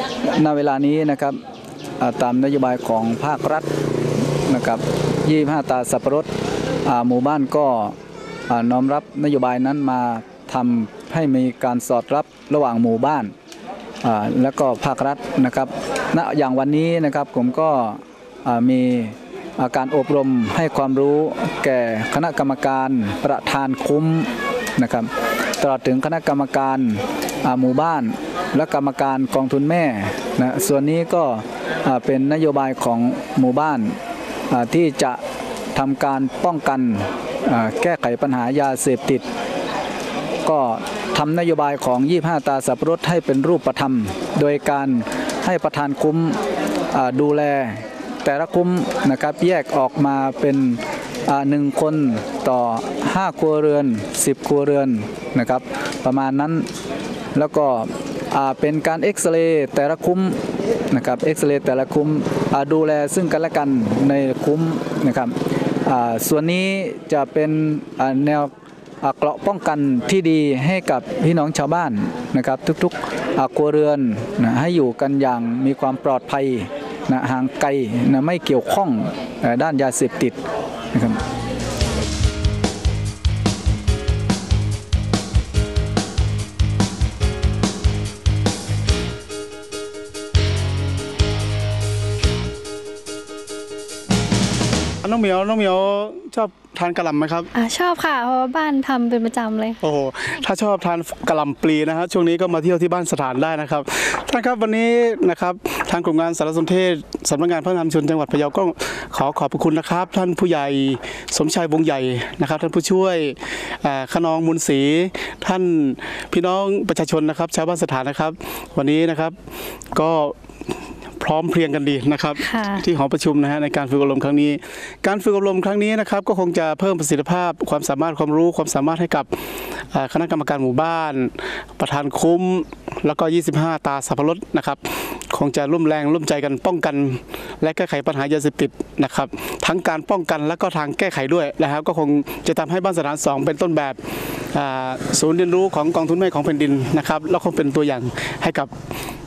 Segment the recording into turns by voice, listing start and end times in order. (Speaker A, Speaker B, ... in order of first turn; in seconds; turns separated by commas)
Speaker A: 0.3-1.4, Speaker A: 2.0-3.7, Speaker A: 4.5-6.3, Speaker A: 6.9-8.0, Speaker A: 8.5-13.3, Speaker A: 14.0-34.0, Speaker A: 34.5-35.2, Speaker A: 35.7-39.2, Speaker A: 40.5-46.4, Speaker A: 46.9-56.7, Speaker A: 57.4-80.4, Speaker A: 80.9-81.2, Speaker B: 95.0-97.5, Speaker C: 97.5-99.8, Speaker B: 99.8-119.4, Speaker B: 119.9-120.4, Speaker B: 121.2-129.3, Speaker C: 122.4-122.8, Speaker B: 129.9-144.0, Speaker B: 144.5-148.7